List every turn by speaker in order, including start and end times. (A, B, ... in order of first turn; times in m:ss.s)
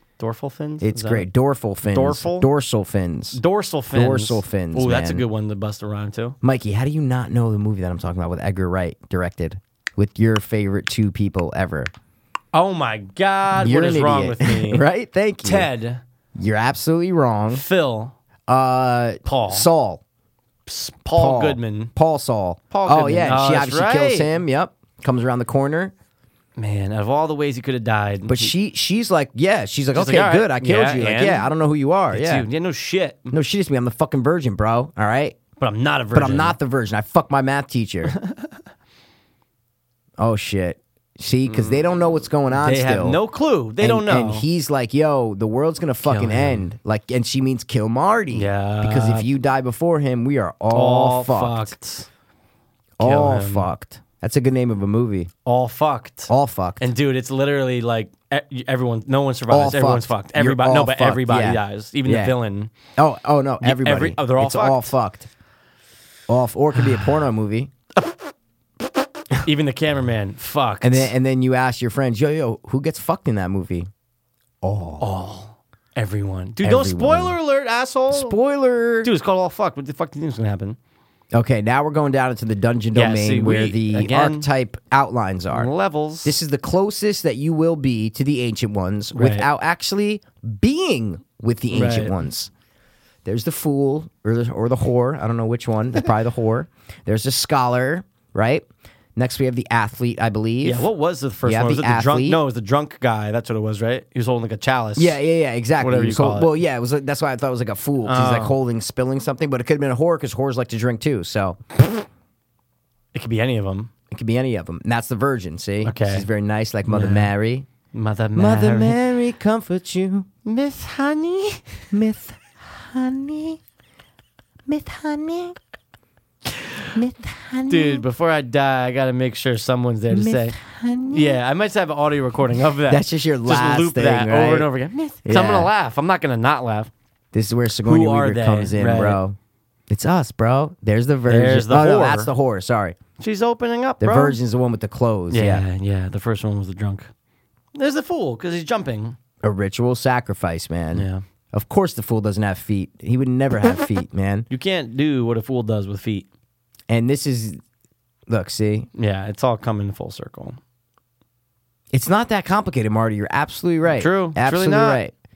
0:00.2-0:01.3 A
0:00.8-0:03.4 B
0:01.8-0:02.5 A
0:03.3-0:06.4 A
0:03.9-0:05.2 B
0:06.4-0:11.9 B
0:12.5-0:14.8 A
0:13.6-0:15.7 B
0:15.4-0:16.0 A
0:16.4-0:17.6 B
0:17.5-0:18.1 A
0:18.5-0:20.0 B
0:19.2-0:19.7 A
0:20.6-0:21.9 A
0:21.1-0:25.9 B
0:22.7-0:24.3 A
0:26.6-0:28.5 A
0:28.3-0:32.5 B
0:29.9-0:31.5 A
0:32.1-0:33.4 A
0:33.3-0:35.4 B
0:35.6-0:36.6 A
0:36.1-0:38.2 B
0:38.1-0:38.5 A
0:40.2-0:43.2 B
0:41.5-0:41.8 A
0:42.5-0:44.4 A
0:43.8-0:51.7 B
0:46.0-0:46.7 A
0:48.3-0:49.3 A
0:50.7-0:52.1 A
0:53.0-0:55.3 B
0:53.0-0:53.7 A
0:55.4-1:02.7 A
0:56.3-0:56.9 B
0:59.5-1:02.4 B
1:03.0-1:05.3 B
1:03.6-1:05.0 A
1:06.3-1:07.7 B
1:06.8-1:07.2 A
1:09.4-1:11.1 A
1:10.8-1:13.9 B
1:14.6-1:15.1 B
1:15.0-1:18.4 A
1:16.6-1:17.4 B
1:18.1-1:19.1 B
1:19.0-1:20.8 A
1:21.3-1:25.7 B
1:22.9-1:24.5 A
1:25.5-1:26.4 A
1:26.2-1:32.5 B
1:29.1-1:29.5 A
1:31.7-1:32.2 A
1:33.2-1:40.9 B
1:40.6-1:45.2 A
1:41.4-1:42.4 B
1:45.0-1:51.6 B
1:45.8-1:46.5 A
1:48.0-1:48.6 A
1:53.1-1:53.9 A
1:54.1-1:57.7 B
1:55.8-1:56.3 A
1:56.9-1:57.3 A
1:57.9-1:59.0 A
1:58.4-2:00.3 B
2:00.4-2:01.8 A
2:01.9-2:03.6 B
2:04.7-2:05.6 B
2:06.9-2:08.0 B
2:07.7-2:10.6 A
2:10.1-2:11.4 B
2:11.1-2:16.9 A
2:12.9-2:14.7 B
2:15.2-2:15.7 B
2:17.3-2:19.4 B
2:17.8-2:19.2 A
2:19.9-2:23.0 B
2:21.3-2:22.3 A
2:23.2-2:24.4 A
2:24.0-2:25.6 B
2:25.3-2:27.1 A
2:27.7-2:29.2 A
2:29.4-2:34.5 B
2:30.9-2:31.2 A
2:34.5-2:36.3 A
2:36.9-2:37.6 B
2:38.3-2:38.9 B
2:38.9-2:40.6 A
2:41.9-2:45.1 B
2:43.9-2:45.0 A